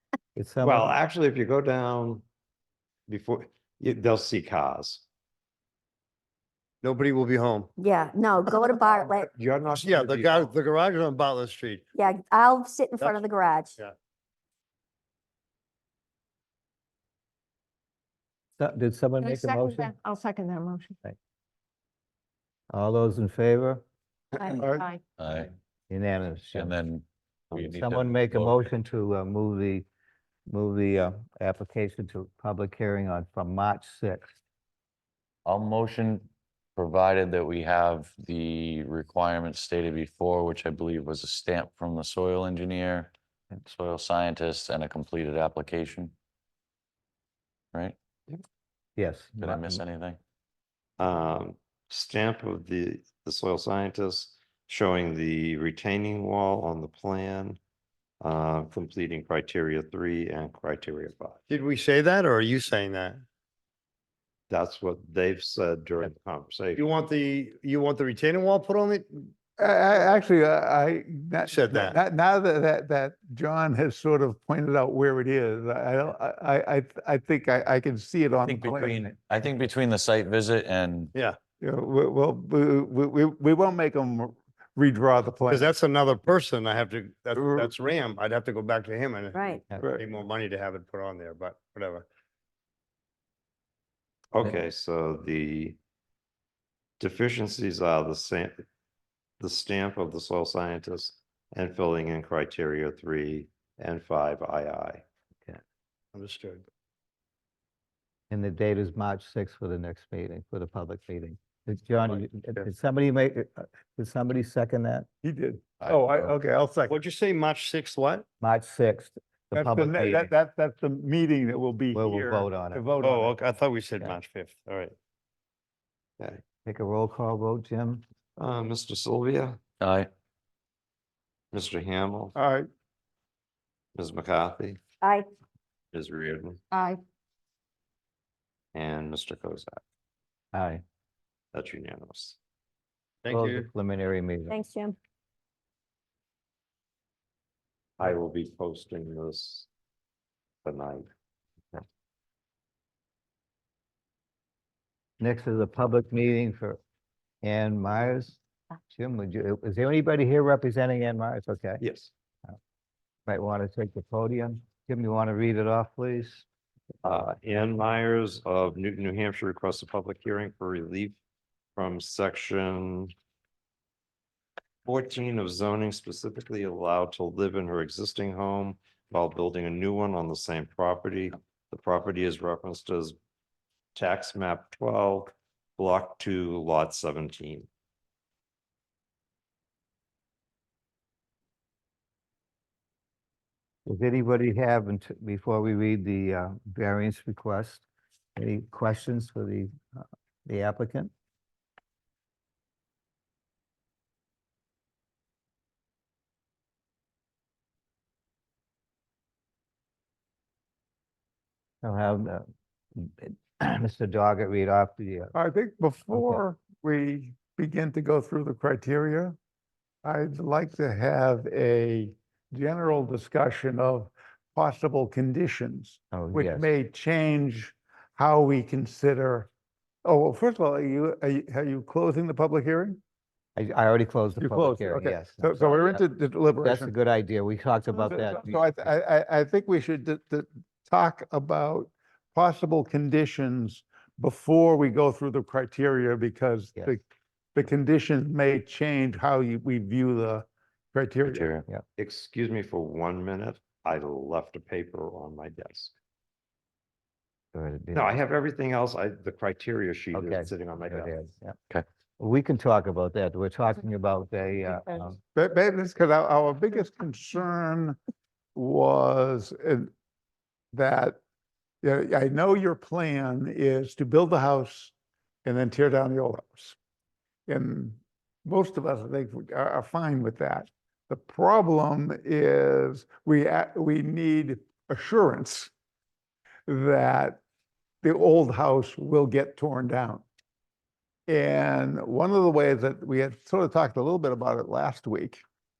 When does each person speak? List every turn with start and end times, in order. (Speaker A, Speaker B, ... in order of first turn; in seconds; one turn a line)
Speaker A: 0.3-0.9
Speaker B: 0.6-2.2
Speaker B: 3.1-5.0
Speaker C: 6.8-7.7
Speaker D: 7.8-9.3
Speaker B: 9.0-10.5
Speaker C: 9.8-11.8
Speaker D: 11.9-13.8
Speaker A: 18.6-19.9
Speaker E: 19.2-21.0
Speaker A: 22.7-23.8
Speaker F: 24.4-24.9
Speaker E: 24.4-25.0
Speaker G: 25.2-25.5
Speaker A: 25.9-26.7
Speaker G: 26.5-28.7
Speaker A: 27.6-29.9
Speaker A: 30.5-34.4
Speaker G: 35.4-43.1
Speaker G: 43.6-46.1
Speaker A: 49.0-49.8
Speaker G: 49.4-50.2
Speaker B: 51.0-57.6
Speaker B: 58.2-61.4
Speaker C: 61.5-63.2
Speaker B: 64.5-66.8
Speaker C: 66.8-69.3
Speaker F: 69.6-79.1
Speaker C: 71.5-72.0
Speaker G: 78.4-81.1
Speaker F: 81.6-85.7
Speaker C: 85.5-92.1
Speaker D: 89.3-89.6
Speaker B: 94.3-95.8
Speaker B: 97.0-98.6
Speaker B: 99.4-105.0
Speaker C: 106.1-106.6
Speaker A: 108.3-115.1
Speaker F: 115.2-117.0
Speaker G: 115.8-116.2
Speaker C: 116.9-118.2
Speaker A: 118.4-120.3
Speaker F: 119.5-123.3
Speaker A: 121.9-122.9
Speaker C: 123.0-124.9
Speaker A: 126.6-128.0
Speaker B: 128.4-129.6
Speaker G: 129.8-130.1
Speaker B: 131.5-132.3
Speaker F: 132.3-132.7
Speaker B: 133.9-134.8
Speaker B: 135.9-136.6
Speaker E: 136.7-137.0
Speaker B: 138.7-139.8
Speaker A: 140.5-140.8
Speaker B: 141.5-142.4
Speaker C: 143.2-143.7
Speaker A: 143.3-144.6
Speaker D: 144.5-144.9
Speaker B: 148.0-149.7
Speaker B: 150.6-151.1
Speaker A: 155.2-156.8
Speaker A: 157.4-161.8
Speaker B: 161.8-162.1
Speaker A: 163.3-166.4
Speaker B: 167.0-171.2
Speaker B: 171.8-173.1
Speaker B: 174.8-183.1
Speaker B: 183.9-187.7
Speaker A: 193.8-197.8
Speaker A: 198.3-201.1
Speaker A: 211.8-215.3
Speaker F: 215.3-219.4
Speaker A: 216.1-216.4
Speaker F: 220.0-229.5
Speaker A: 226.1-226.7
Speaker F: 230.0-233.0
Speaker A: 233.6-236.0
Speaker F: 234.4-236.9
Speaker A: 236.6-238.6
Speaker F: 238.0-247.0
Speaker F: 247.5-251.6
Speaker G: 251.2-251.6
Speaker B: 252.0-255.9
Speaker A: 257.5-258.2
Speaker B: 257.9-261.2
Speaker A: 260.1-261.6
Speaker A: 262.2-265.2
Speaker F: 265.4-268.0
Speaker F: 268.6-269.9
Speaker F: 270.7-271.2
Speaker F: 271.8-274.9
Speaker F: 275.4-276.8
Speaker F: 277.5-285.7
Speaker F: 286.7-287.4
Speaker F: 288.0-290.2
Speaker F: 291.3-295.4